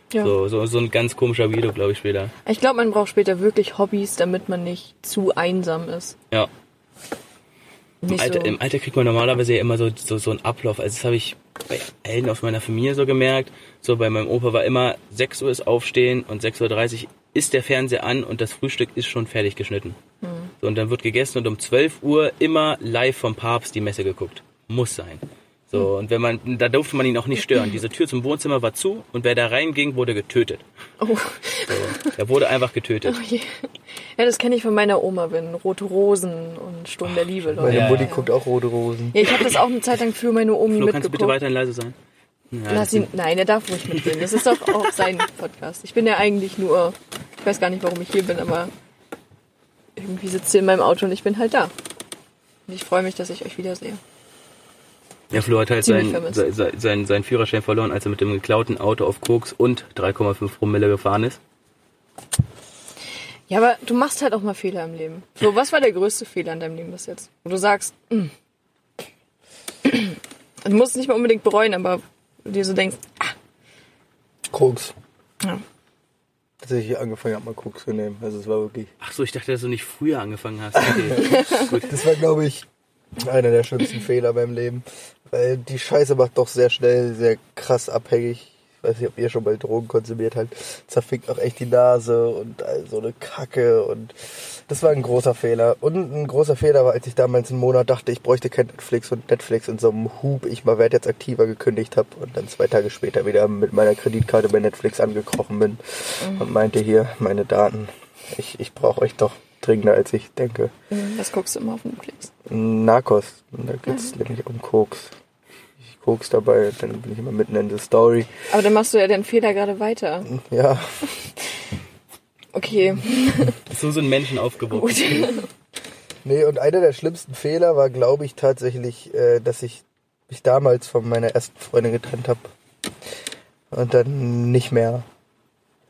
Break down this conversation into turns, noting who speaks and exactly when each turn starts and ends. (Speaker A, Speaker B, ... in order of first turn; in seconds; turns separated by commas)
Speaker A: 0.2-2.3, Speaker B: 2.5-6.2, Speaker B: 8.0-8.6, Speaker A: 8.1-20.0, Speaker B: 20.2-20.5, Speaker A: 20.6-30.6, Speaker B: 31.0-32.1, Speaker A: 31.7-33.2, Speaker B: 33.0-38.3, Speaker A: 37.1-38.1, Speaker C: 37.6-39.2, Speaker B: 39.1-41.4, Speaker A: 40.7-42.0, Speaker A: 42.5-43.1, Speaker B: 42.7-48.7, Speaker A: 44.0-44.5, Speaker B: 50.0-51.7, Speaker B: 52.7-54.0, Speaker A: 55.3-61.4, Speaker B: 55.8-56.4, Speaker B: 63.5-68.3, Speaker B: 69.8-73.3, Speaker C: 74.5-74.9, Speaker C: 76.6-78.9, Speaker A: 79.0-82.0, Speaker B: 81.3-81.7, Speaker C: 81.8-82.7, Speaker C: 83.2-94.2, Speaker C: 94.7-110.7, Speaker B: 110.9-112.3, Speaker C: 112.5-115.1, Speaker C: 115.9-118.3, Speaker B: 118.5-120.3, Speaker C: 120.3-120.9, Speaker B: 122.5-123.6, Speaker A: 123.7-125.4, Speaker B: 124.7-125.5, Speaker C: 126.2-132.5, Speaker C: 133.7-135.1